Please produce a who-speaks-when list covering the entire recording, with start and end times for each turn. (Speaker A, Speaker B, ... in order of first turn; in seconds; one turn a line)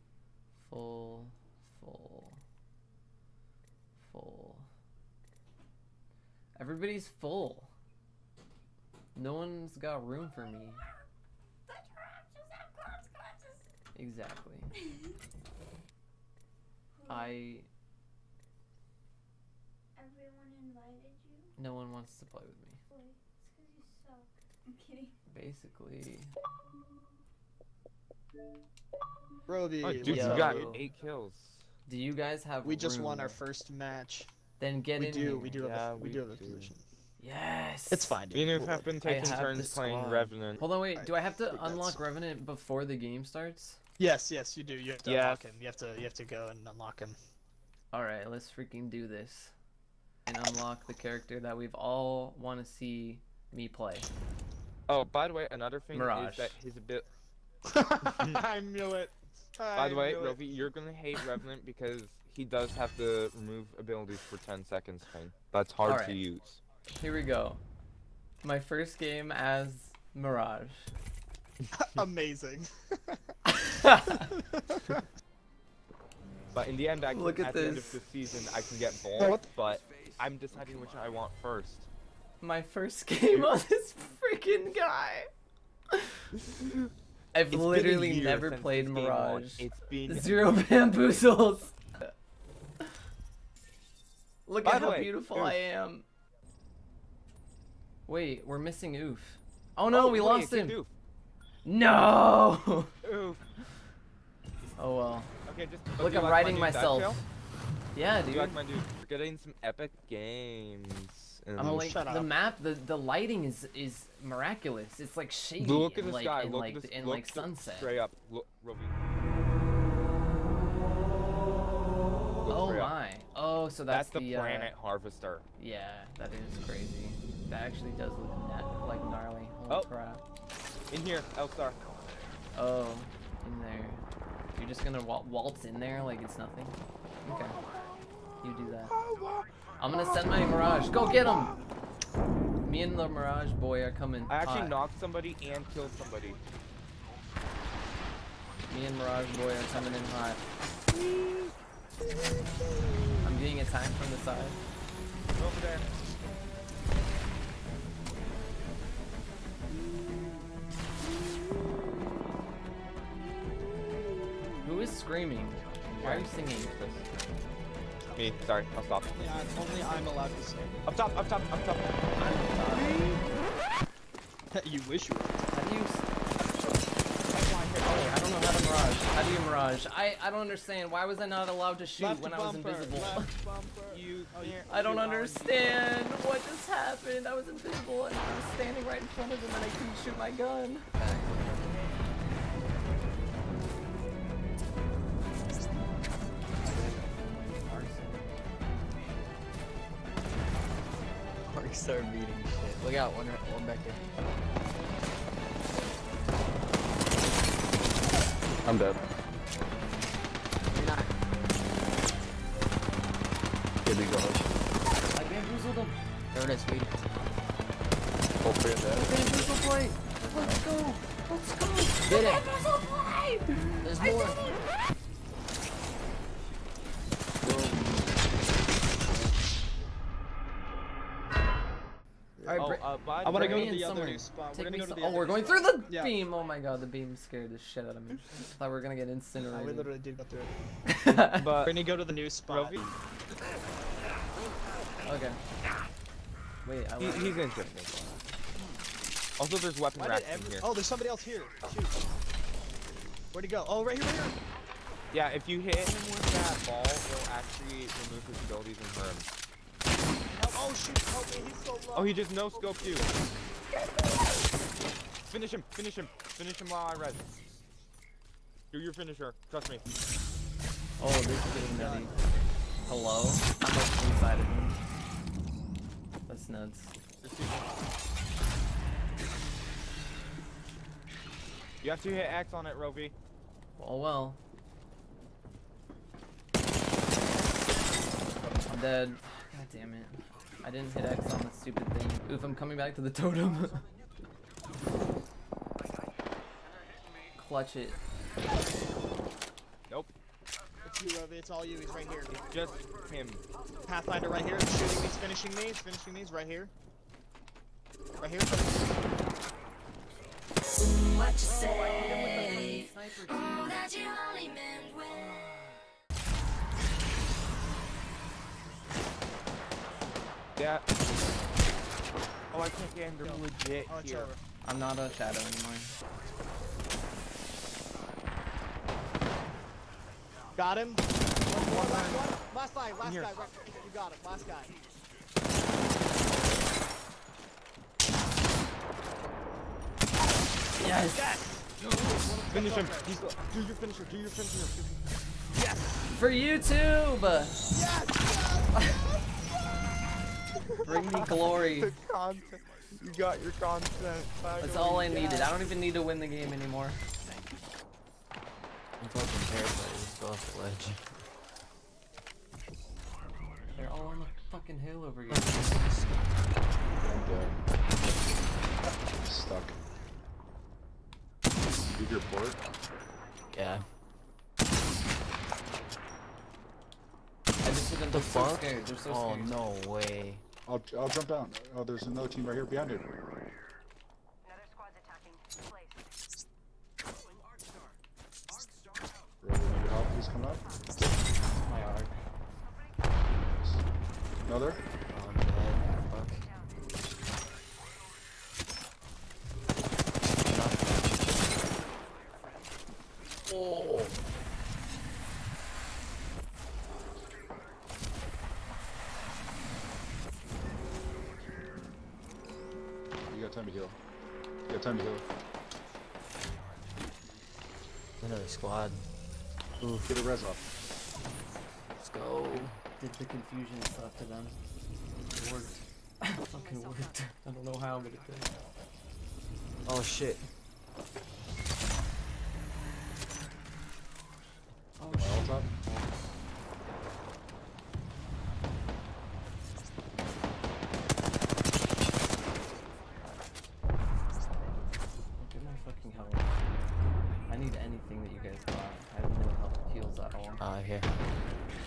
Speaker A: 0.5-2.4
Speaker A: 4.0-4.7
Speaker A: 6.6-7.7
Speaker A: 9.2-10.8
Speaker B: 11.7-13.7
Speaker A: 13.9-14.8
Speaker B: 16.9-17.4
Speaker A: 17.1-17.7
Speaker B: 20.0-21.5
Speaker A: 21.6-22.8
Speaker B: 22.9-25.2
Speaker A: 25.3-26.3
Speaker C: 29.5-30.7
Speaker D: 29.8-31.7
Speaker A: 30.0-30.9
Speaker A: 31.9-33.4
Speaker C: 32.6-34.3
Speaker A: 34.6-35.6
Speaker C: 35.0-36.8
Speaker D: 35.6-36.7
Speaker A: 37.2-38.2
Speaker C: 37.9-38.9
Speaker D: 38.3-40.6
Speaker A: 39.0-43.8
Speaker C: 41.0-42.0
Speaker C: 44.0-47.2
Speaker D: 45.0-45.5
Speaker A: 47.9-49.5
Speaker A: 50.3-54.1
Speaker D: 54.9-57.1
Speaker A: 55.9-56.6
Speaker C: 57.7-60.6
Speaker D: 59.8-66.6
Speaker A: 65.8-66.2
Speaker A: 67.0-67.6
Speaker A: 68.4-70.9
Speaker C: 71.7-73.2
Speaker A: 73.6-74.3
Speaker C: 74.3-75.0
Speaker D: 76.5-81.9
Speaker A: 77.1-78.0
Speaker C: 79.2-79.5
Speaker A: 82.4-85.3
Speaker A: 87.3-92.1
Speaker D: 87.5-90.5
Speaker A: 94.5-96.1
Speaker D: 94.6-95.6
Speaker A: 98.1-100.8
Speaker D: 99.9-100.9
Speaker A: 101.7-102.9
Speaker D: 103.0-103.4
Speaker A: 104.8-105.3
Speaker D: 105.5-107.2
Speaker A: 106.0-107.2
Speaker A: 107.9-108.6
Speaker D: 108.2-111.9
Speaker C: 111.6-112.4
Speaker A: 111.6-118.0
Speaker D: 115.6-118.9
Speaker D: 122.4-122.9
Speaker A: 122.5-124.7
Speaker D: 123.9-125.5
Speaker A: 125.6-130.2
Speaker D: 130.9-131.8
Speaker A: 132.5-134.0
Speaker A: 134.6-137.6
Speaker A: 138.4-138.9
Speaker D: 138.9-139.4
Speaker A: 139.8-141.6
Speaker A: 142.6-144.8
Speaker D: 144.3-146.4
Speaker A: 148.7-150.4
Speaker A: 153.2-154.6
Speaker D: 155.4-155.8
Speaker A: 164.6-167.0
Speaker D: 166.0-167.0
Speaker C: 168.0-168.4
Speaker D: 168.2-169.4
Speaker C: 169.1-170.8
Speaker D: 170.9-171.9
Speaker A: 172.2-173.2
Speaker C: 174.5-175.4
Speaker A: 175.5-176.1
Speaker D: 177.3-178.1
Speaker A: 177.8-183.3
Speaker C: 182.0-185.1
Speaker D: 183.9-185.8
Speaker A: 184.7-191.4
Speaker A: 196.6-198.8
Speaker E: 201.4-204.0
Speaker E: 210.7-211.1
Speaker A: 215.1-216.0
Speaker E: 216.3-217.0
Speaker A: 218.9-223.9
Speaker E: 222.0-222.5
Speaker E: 223.8-224.4
Speaker C: 232.4-236.2
Speaker A: 232.4-239.9
Speaker D: 232.6-233.8
Speaker C: 239.5-240.5
Speaker A: 240.9-241.5
Speaker D: 241.3-241.8
Speaker C: 241.6-242.8
Speaker D: 242.5-242.9
Speaker A: 245.0-245.4
Speaker A: 246.6-248.3
Speaker D: 247.0-247.9
Speaker D: 249.4-250.7
Speaker C: 249.9-252.0
Speaker C: 253.3-254.3
Speaker D: 255.1-259.3
Speaker C: 260.2-263.1
Speaker D: 261.9-263.1
Speaker D: 265.3-267.2
Speaker D: 268.7-269.9
Speaker A: 271.0-274.8
Speaker C: 271.4-272.2
Speaker A: 276.3-276.9
Speaker D: 277.2-277.7
Speaker D: 281.8-283.1
Speaker A: 283.8-284.4
Speaker A: 288.5-293.9
Speaker A: 297.4-298.0
Speaker C: 300.8-302.4
Speaker D: 302.4-303.4
Speaker C: 303.9-306.7
Speaker C: 308.2-308.9
Speaker A: 311.3-315.7
Speaker D: 320.6-320.9
Speaker D: 322.5-324.3
Speaker C: 323.2-324.4
Speaker A: 324.6-325.9
Speaker C: 330.6-334.8
Speaker D: 331.6-332.3
Speaker D: 333.0-333.5
Speaker A: 340.8-341.2
Speaker C: 341.1-343.2
Speaker D: 341.8-345.0
Speaker C: 345.5-346.1
Speaker A: 346.1-347.6
Speaker C: 347.7-349.2
Speaker A: 350.8-351.9
Speaker D: 351.2-355.5
Speaker A: 354.6-357.0
Speaker E: 359.0-361.1
Speaker A: 363.7-365.8
Speaker E: 365.3-366.1
Speaker F: 367.0-367.6
Speaker F: 369.2-369.8
Speaker F: 371.9-372.6
Speaker E: 373.5-373.9
Speaker A: 377.6-379.6
Speaker E: 378.1-380.4
Speaker F: 380.7-383.1
Speaker F: 389.4-390.6
Speaker E: 391.7-392.1
Speaker F: 393.4-393.8
Speaker F: 394.4-394.8
Speaker E: 395.1-396.5
Speaker E: 400.4-401.4
Speaker F: 413.3-414.0
Speaker F: 414.7-415.2
Speaker E: 418.2-419.0
Speaker E: 419.8-420.1
Speaker F: 420.1-420.6
Speaker E: 422.0-422.8
Speaker A: 422.9-424.6
Speaker A: 425.2-428.6
Speaker E: 429.9-430.5
Speaker A: 435.0-436.1
Speaker F: 435.1-435.7
Speaker A: 445.4-446.5
Speaker A: 447.5-450.6
Speaker E: 450.6-451.1